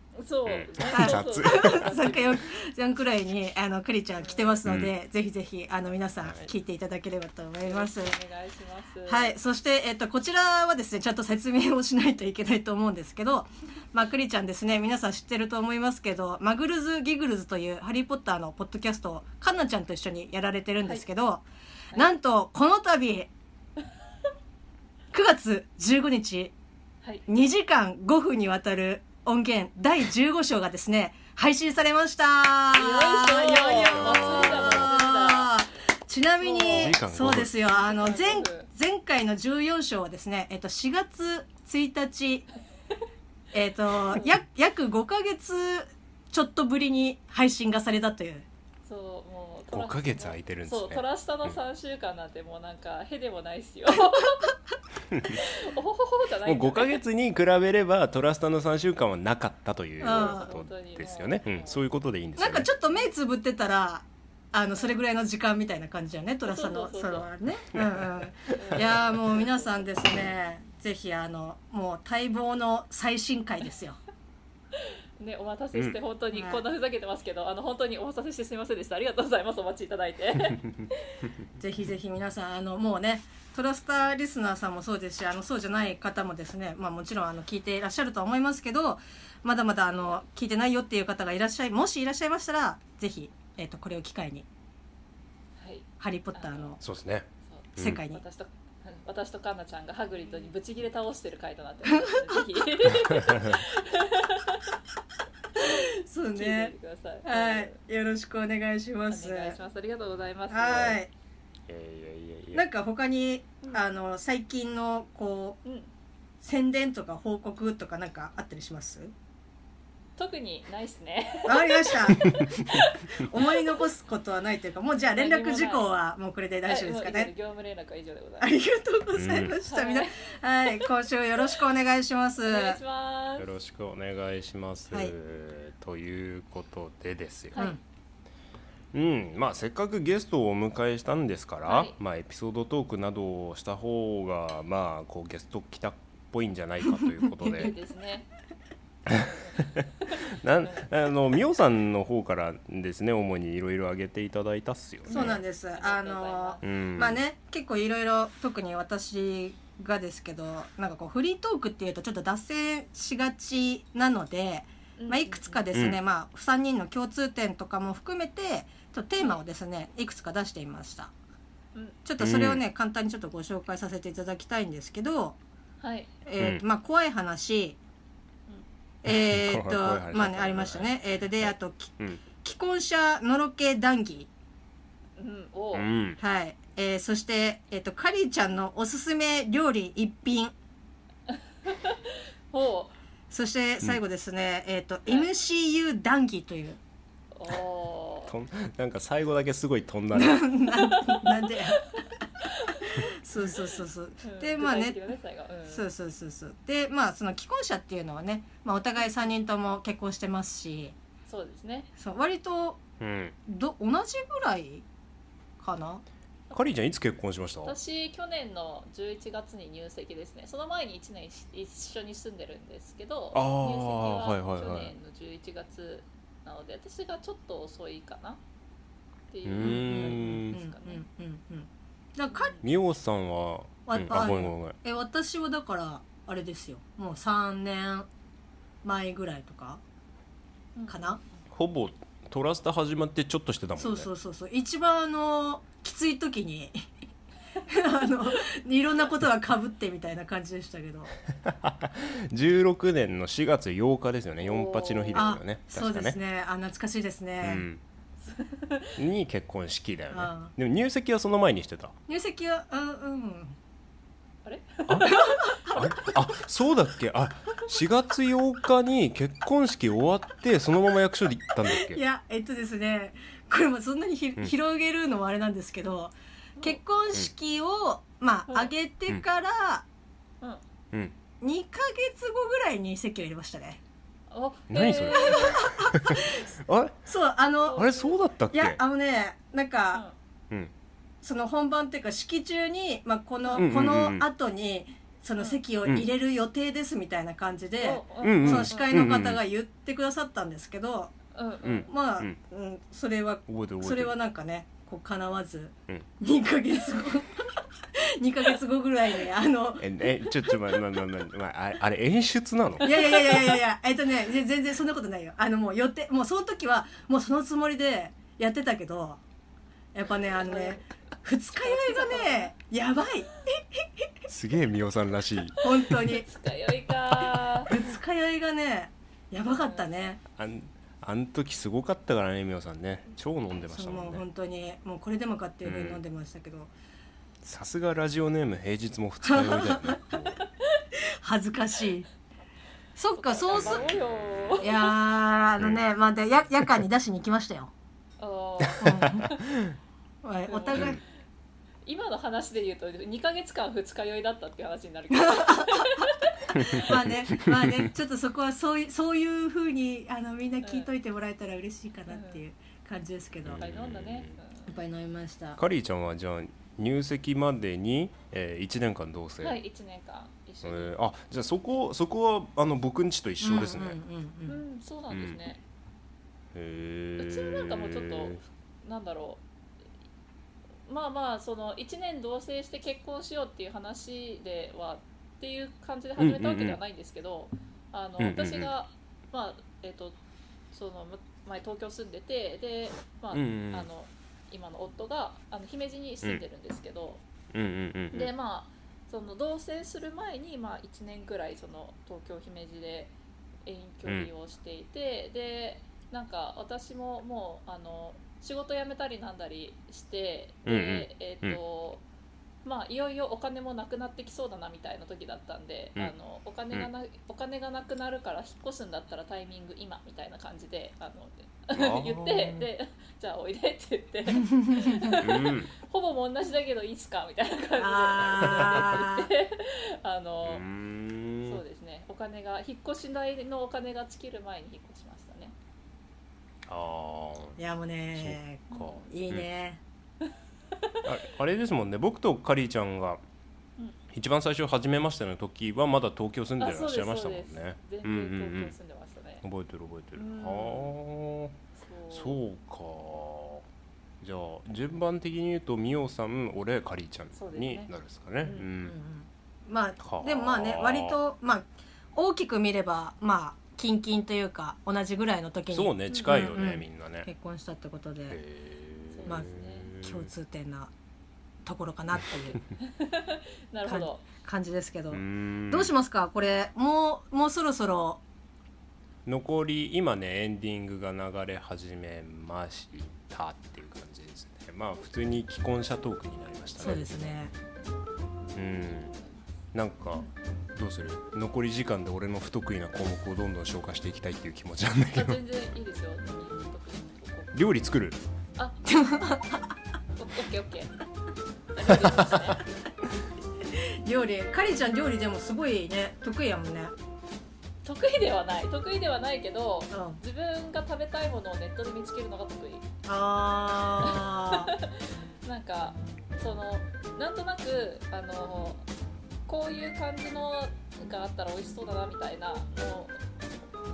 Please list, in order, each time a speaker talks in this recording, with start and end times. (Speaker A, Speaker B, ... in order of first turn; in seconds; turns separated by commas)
Speaker A: 0.2-2.4, Speaker B: 0.5-1.9, Speaker C: 0.9-8.2, Speaker A: 4.2-4.6, Speaker B: 4.7-4.9, Speaker B: 6.2-6.5, Speaker A: 7.6-9.4, Speaker C: 9.1-23.3, Speaker C: 25.1-26.5, Speaker C: 27.3-42.5, Speaker A: 32.7-35.5, Speaker B: 33.8-34.9, Speaker A: 36.4-37.0, Speaker B: 36.6-37.5, Speaker A: 37.7-38.7, Speaker C: 43.5-48.5, Speaker A: 48.9-54.5, Speaker B: 49.7-51.6, Speaker B: 55.1-55.4, Speaker A: 55.3-57.0, Speaker B: 56.5-62.7, Speaker C: 60.0-60.5, Speaker A: 60.0-61.8, Speaker C: 62.4-74.0, Speaker A: 66.5-67.3, Speaker B: 67.7-68.2, Speaker A: 68.5-69.8, Speaker B: 68.8-69.0, Speaker A: 74.8-81.3, Speaker C: 76.3-76.6, Speaker C: 81.6-94.5, Speaker A: 95.6-96.8, Speaker C: 96.0-96.8, Speaker B: 96.8-98.0, Speaker A: 97.5-104.8, Speaker C: 97.8-98.2, Speaker C: 101.9-102.2, Speaker A: 105.6-107.8, Speaker C: 105.6-109.6, Speaker A: 109.1-111.0, Speaker C: 110.5-111.1, Speaker B: 111.7-112.7, Speaker C: 112.5-115.6, Speaker A: 115.7-115.9, Speaker C: 116.4-119.1, Speaker A: 120.2-123.5, Speaker C: 121.5-122.3, Speaker C: 123.2-127.3, Speaker A: 125.1-125.9, Speaker A: 126.7-128.5, Speaker C: 128.4-132.8, Speaker B: 129.2-129.6, Speaker A: 129.6-130.9, Speaker A: 132.5-133.5, Speaker B: 133.4-137.6, Speaker A: 137.5-137.8, Speaker B: 138.9-147.7, Speaker A: 141.7-142.0, Speaker A: 147.4-148.3, Speaker B: 149.1-155.4, Speaker A: 149.1-150.9, Speaker A: 155.1-156.6, Speaker C: 155.1-171.1, Speaker B: 156.6-157.2, Speaker A: 165.0-165.7, Speaker B: 165.7-166.0, Speaker C: 172.1-175.4, Speaker B: 172.2-172.6, Speaker A: 175.8-176.1, Speaker C: 176.3-177.8, Speaker C: 179.0-184.3, Speaker B: 179.1-182.2, Speaker A: 185.2-185.9, Speaker B: 185.7-186.2, Speaker C: 186.2-190.5, Speaker A: 191.3-193.0, Speaker C: 193.3-196.8, Speaker A: 197.3-198.3, Speaker B: 198.3-200.6, Speaker C: 200.1-201.9, Speaker A: 200.8-203.1, Speaker C: 202.9-205.0, Speaker A: 204.2-205.9, Speaker C: 205.7-211.0, Speaker A: 211.3-211.9, Speaker C: 212.0-212.8, Speaker B: 213.0-213.3, Speaker C: 213.5-214.8, Speaker C: 215.6-216.0, Speaker B: 216.5-217.8, Speaker A: 217.7-228.4, Speaker B: 223.3-224.9, Speaker A: 229.3-231.0, Speaker B: 229.4-230.6, Speaker C: 229.6-232.6, Speaker A: 232.3-232.6, Speaker B: 232.6-234.8, Speaker C: 233.9-238.1, Speaker C: 238.8-239.8, Speaker A: 240.8-241.2, Speaker C: 240.9-241.2, Speaker B: 241.5-244.1, Speaker C: 243.8-246.8, Speaker C: 247.7-251.2, Speaker B: 251.4-256.2, Speaker A: 254.4-255.3, Speaker C: 255.1-257.7, Speaker B: 257.4-257.8, Speaker A: 258.2-259.0, Speaker B: 259.0-262.0, Speaker C: 260.1-260.5, Speaker C: 262.1-263.6, Speaker A: 264.4-265.8, Speaker B: 264.9-265.1, Speaker C: 265.1-265.9, Speaker B: 265.7-272.0, Speaker C: 271.7-279.9, Speaker C: 281.4-283.8, Speaker A: 284.3-285.6, Speaker B: 284.7-287.1, Speaker C: 285.3-286.4, Speaker C: 287.1-287.9, Speaker A: 287.7-288.1, Speaker B: 287.7-288.8, Speaker C: 288.5-290.0, Speaker C: 291.2-301.1, Speaker B: 293.6-294.3, Speaker A: 297.8-299.0, Speaker B: 298.2-299.4, Speaker A: 301.4-301.9, Speaker B: 301.6-302.4, Speaker C: 301.9-309.9, Speaker B: 303.5-304.1, Speaker B: 309.8-312.9, Speaker C: 312.8-319.2, Speaker A: 312.8-313.1, Speaker C: 319.9-323.9, Speaker A: 320.4-320.8, Speaker A: 321.6-322.5, Speaker B: 324.3-325.7, Speaker C: 325.6-326.2, Speaker A: 325.9-327.9, Speaker C: 327.7-330.2, Speaker A: 329.4-329.9, Speaker B: 330.4-334.2, Speaker C: 333.7-336.7, Speaker B: 335.6-336.0, Speaker B: 337.4-340.4, Speaker C: 339.2-340.0, Speaker C: 341.2-342.1, Speaker C: 343.0-343.8, Speaker A: 343.1-344.9, Speaker B: 343.5-344.6, Speaker C: 344.6-347.7, Speaker A: 348.2-349.4, Speaker B: 348.6-349.8, Speaker C: 348.8-349.3, Speaker C: 350.2-351.0, Speaker A: 350.5-351.0, Speaker B: 350.8-351.0, Speaker A: 351.9-356.9, Speaker C: 355.1-356.1, Speaker B: 356.6-357.9, Speaker C: 356.6-363.7, Speaker A: 360.6-360.9, Speaker A: 362.1-362.4, Speaker B: 363.4-364.4, Speaker A: 363.6-364.8, Speaker C: 364.7-365.6, Speaker B: 365.6-369.6, Speaker A: 369.4-371.0, Speaker B: 370.6-374.0, Speaker C: 373.4-374.6, Speaker A: 374.5-375.6, Speaker B: 375.1-375.4, Speaker B: 376.5-378.4, Speaker A: 377.2-379.4, Speaker A: 380.9-390.2, Speaker B: 386.2-386.8, Speaker B: 388.2-388.7, Speaker A: 390.7-397.2, Speaker B: 393.3-393.9, Speaker B: 397.5-398.3, Speaker A: 398.1-403.1, Speaker A: 403.6-412.0, Speaker B: 410.7-411.6, Speaker A: 412.6-430.6, Speaker B: 421.7-422.7, Speaker C: 424.5-425.1, Speaker B: 425.1-425.7, Speaker C: 427.8-429.3, Speaker B: 428.4-429.0, Speaker B: 430.4-431.6, Speaker A: 431.4-435.6, Speaker B: 436.7-437.6, Speaker C: 437.6-439.8, Speaker B: 438.2-439.5, Speaker A: 440.7-441.1, Speaker B: 441.0-443.2, Speaker B: 444.1-448.8, Speaker A: 446.6-449.4, Speaker B: 449.4-451.6, Speaker A: 450.1-451.0, Speaker A: 451.8-452.4, Speaker B: 452.1-453.6, Speaker B: 454.2-459.0, Speaker A: 457.3-457.9, Speaker A: 458.4-458.7, Speaker C: 458.8-468.4, Speaker B: 460.0-461.2, Speaker B: 465.7-467.3, Speaker A: 466.1-466.5, Speaker B: 468.3-470.3, Speaker A: 469.1-469.9, Speaker C: 469.3-470.9, Speaker C: 471.6-472.6, Speaker A: 472.8-474.2, Speaker C: 473.9-478.2, Speaker B: 475.1-475.9, Speaker B: 479.3-487.4, Speaker C: 486.8-487.5, Speaker B: 488.6-489.1, Speaker A: 488.9-489.4, Speaker B: 489.7-495.4, Speaker A: 495.1-497.6, Speaker B: 497.5-498.2, Speaker A: 498.6-498.9, Speaker C: 498.9-499.6, Speaker A: 500.2-500.9, Speaker A: 501.7-502.6, Speaker C: 504.1-506.9, Speaker A: 507.8-512.9, Speaker C: 509.9-510.2, Speaker C: 513.1-514.7, Speaker A: 514.0-518.9, Speaker A: 519.5-523.2